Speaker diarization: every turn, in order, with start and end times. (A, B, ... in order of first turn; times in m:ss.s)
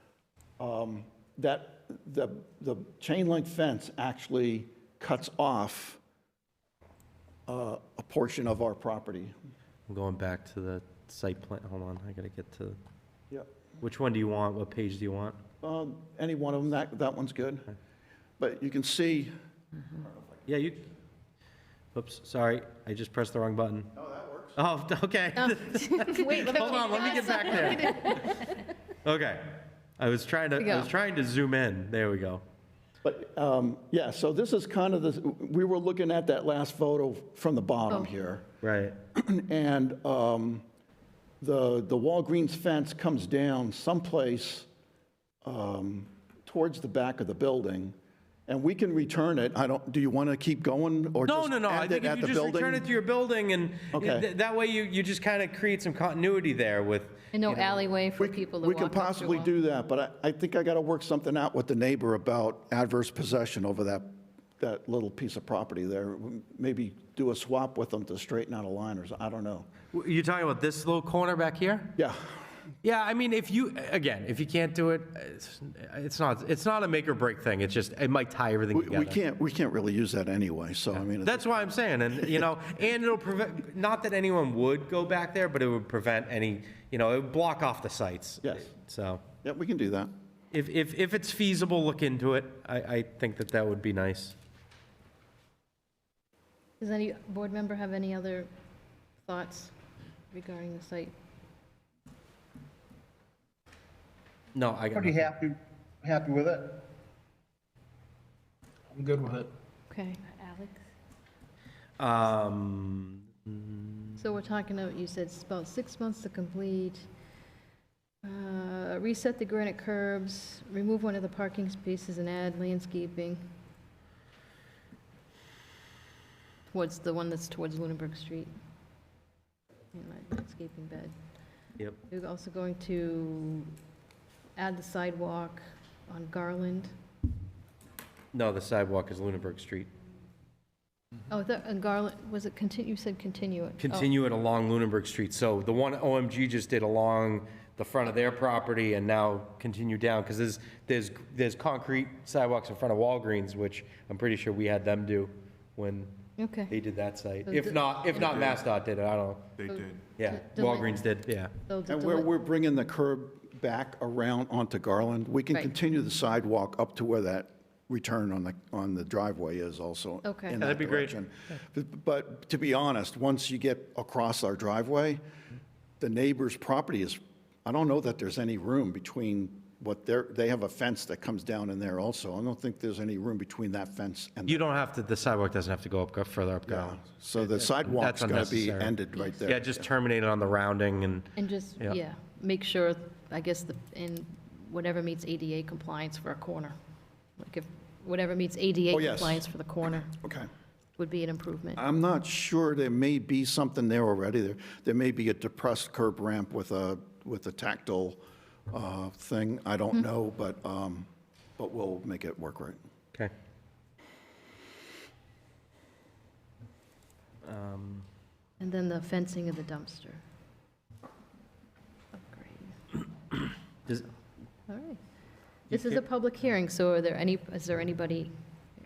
0:00.6-0:06.0 A
0:07.5-0:09.3 A
0:09.9-0:12.8 B
0:13.8-0:15.4 B
0:15.6-0:17.7 A
0:18.4-0:19.3 A
0:19.9-0:20.5 A
0:20.5-0:20.9 B
0:21.9-0:23.9 B
0:23.9-0:24.6 A
0:24.6-0:28.5 B
0:25.4-0:28.6 C
0:29.0-0:32.4 B
0:30.6-0:30.9 C
0:33.0-0:38.5 A
0:38.6-0:39.0 B
0:39.1-0:40.6 A
0:41.4-0:44.7 A
0:45.4-0:47.9 A
0:48.5-0:52.9 A
0:51.2-0:57.8 B
0:53.9-0:54.3 A
0:57.3-0:59.5 C
0:58.2-1:09.7 A
1:09.9-1:12.0 B
1:12.0-1:12.4 A
1:12.8-1:19.2 B
1:18.7-1:22.5 A
1:20.9-1:29.2 B
1:28.4-1:28.8 A
1:29.4-1:30.1 A
1:30.5-1:34.3 B
1:36.8-1:38.5 C
1:39.2-1:39.8 C
1:40.3-1:41.1 C
1:44.5-1:45.4 B
1:45.2-1:46.8 D
1:48.9-1:49.5 D
1:49.9-1:50.2 C
1:52.0-1:54.2 B
1:54.2-1:57.0 C
1:58.2-2:03.4 C
2:06.7-2:08.5 C
2:09.9-2:11.1 C
2:12.1-2:13.7 C
2:14.6-2:16.9 C
2:18.3-2:19.9 B
2:21.3-2:24.1 C
2:23.8-2:39.6 B
2:36.4-2:36.7 C
2:37.5-2:38.5 C
2:39.6-2:40.1 D
2:39.7-2:41.0 C
2:40.2-2:41.5 B
2:41.6-2:42.3 C
2:41.9-2:55.2 A
2:50.2-2:50.6 C
2:50.5-2:51.2 B
2:56.0-3:04.7 A
3:04.5-3:12.0 B
3:06.7-3:09.9 A
3:11.4-3:16.7 C
3:17.4-3:20.1 C
3:18.9-3:19.5 A
3:20.2-3:20.5 A
3:21.0-3:21.8 C
3:21.8-3:32.8 A
3:37.4-3:38.1 B
3:38.6-3:40.2 C
3:42.1-3:42.8 C
3:44.7-3:45.0 C
3:45.7-3:48.3 C
3:45.7-3:46.0 B